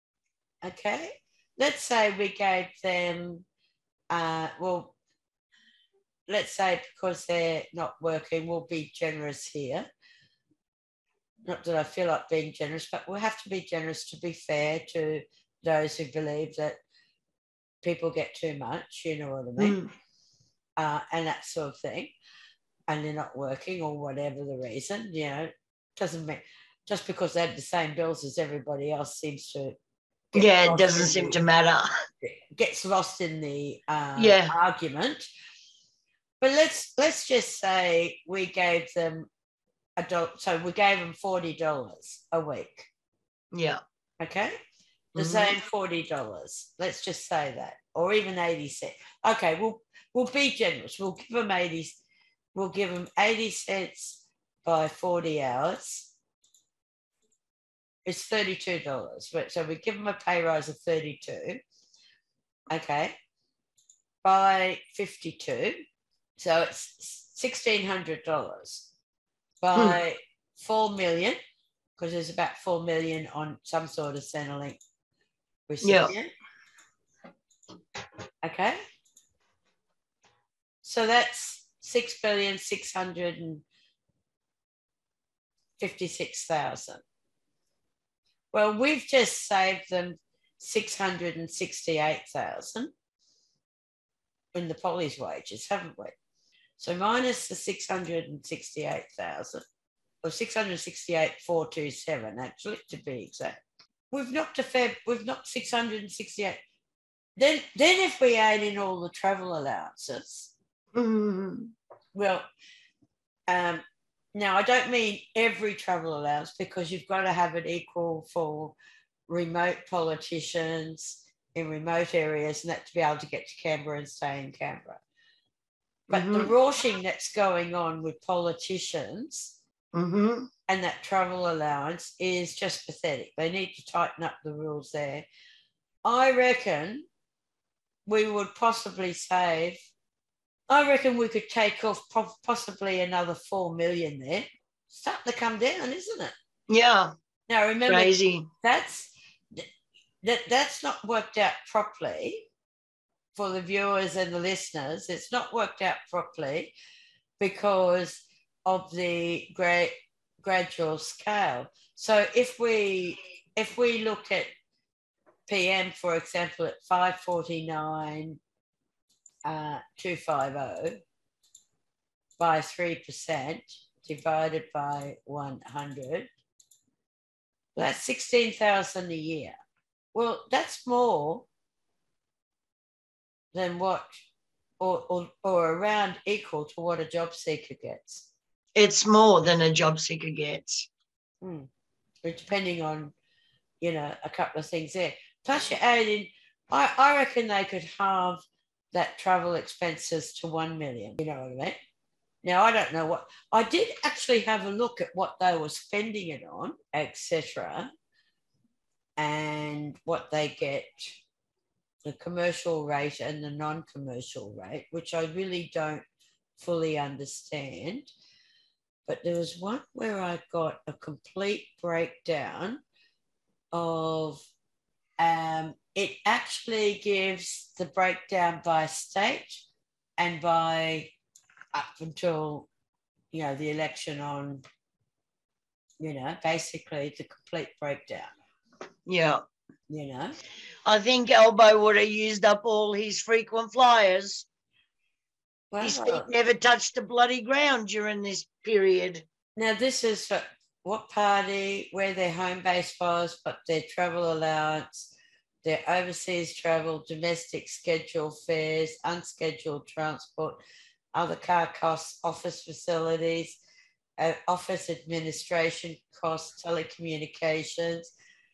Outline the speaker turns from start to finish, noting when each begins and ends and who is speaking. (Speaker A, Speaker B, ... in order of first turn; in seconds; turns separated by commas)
Speaker A: 0.6-3.4, Speaker A: 4.1-4.9, Speaker A: 6.3-9.9, Speaker A: 11.4-16.8, Speaker A: 17.8-19.8, Speaker B: 19.6-19.9, Speaker A: 20.8-22.1, Speaker A: 22.9-29.8, Speaker A: 30.3-31.4, Speaker B: 30.3-31.9, Speaker A: 32.2-35.2, Speaker B: 34.2-34.5, Speaker A: 36.4-39.3, Speaker A: 40.0-42.9, Speaker B: 43.5-43.8, Speaker A: 44.2-44.5, Speaker B: 45.1-45.5, Speaker A: 45.2-52.0, Speaker A: 52.5-56.1, Speaker A: 58.0-61.6, Speaker A: 62.7-63.1, Speaker A: 64.2-65.8, Speaker A: 66.4-68.9, Speaker A: 69.6-71.4, Speaker A: 72.0-74.8, Speaker A: 75.7-76.3, Speaker B: 75.8-76.1, Speaker A: 78.4-78.8, Speaker A: 80.8-83.6, Speaker A: 85.8-87.0, Speaker A: 88.5-92.9, Speaker A: 94.5-96.1, Speaker A: 96.8-99.6, Speaker A: 100.2-106.6, Speaker A: 107.4-110.5, Speaker B: 110.9-111.7, Speaker A: 112.1-112.4, Speaker A: 113.5-113.8, Speaker A: 114.3-118.7, Speaker A: 119.3-125.0, Speaker B: 126.1-126.5, Speaker A: 126.1-129.5, Speaker B: 129.9-130.5, Speaker A: 130.7-135.3, Speaker A: 136.0-137.1, Speaker A: 138.1-139.8, Speaker A: 140.7-146.3, Speaker B: 146.7-147.1, Speaker A: 147.5-149.7, Speaker B: 147.9-148.5, Speaker A: 150.2-152.5, Speaker A: 153.3-156.7, Speaker A: 157.4-164.5, Speaker A: 165.5-168.4, Speaker A: 169.4-171.0, Speaker A: 172.4-176.3, Speaker A: 177.8-179.5, Speaker A: 180.1-181.4, Speaker A: 183.5-184.2, Speaker A: 184.8-188.3, Speaker B: 188.8-190.8, Speaker A: 191.4-191.7, Speaker A: 192.2-193.1, Speaker A: 193.8-198.4, Speaker A: 198.9-201.8, Speaker A: 202.4-207.9, Speaker A: 209.2-211.2, Speaker A: 212.0-216.0, Speaker A: 216.6-218.1, Speaker A: 219.1-222.8, Speaker A: 223.7-224.4, Speaker A: 225.2-229.6, Speaker A: 230.2-231.1, Speaker A: 231.7-232.7, Speaker A: 233.3-234.6, Speaker A: 236.0-238.3, Speaker B: 239.1-239.4, Speaker A: 239.9-240.3, Speaker B: 240.8-244.4, Speaker A: 245.7-246.3, Speaker B: 245.8-249.2, Speaker A: 249.6-255.1, Speaker A: 255.6-260.6, Speaker A: 261.1-263.6, Speaker A: 264.2-268.1